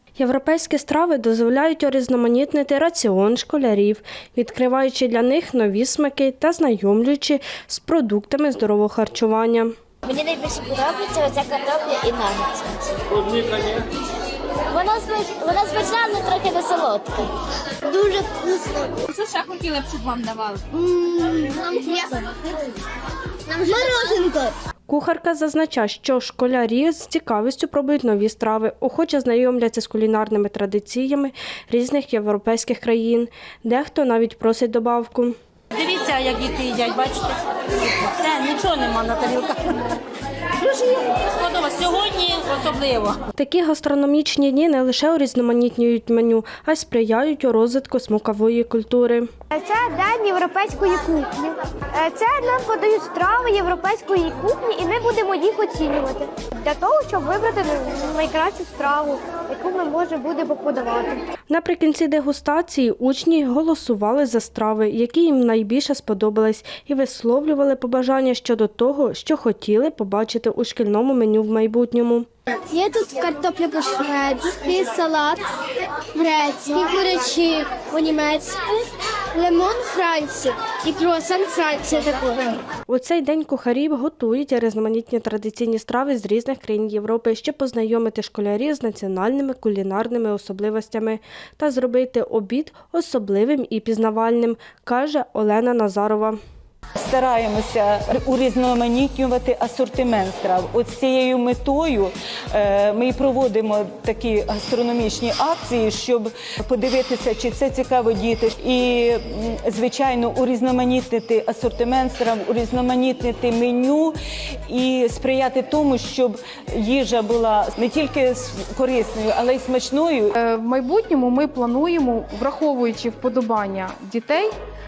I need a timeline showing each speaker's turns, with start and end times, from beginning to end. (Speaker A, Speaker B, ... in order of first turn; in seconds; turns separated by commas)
Speaker A: 0.2-9.7, Speaker B: 10.1-13.7, Speaker B: 14.7-17.3, Speaker B: 17.9-19.1, Speaker C: 19.1-20.6, Speaker B: 20.9-22.3, Speaker B: 23.5-24.5, Speaker A: 24.9-35.4, Speaker C: 35.7-39.9, Speaker C: 40.6-43.2, Speaker A: 43.3-49.3, Speaker D: 49.5-61.2, Speaker A: 61.5-72.3, Speaker D: 72.7-75.4, Speaker D: 76.1-82.6, Speaker A: 82.9-96.4, Speaker E: 97.0-114.1, Speaker E: 114.7-120.4, Speaker F: 120.4-124.5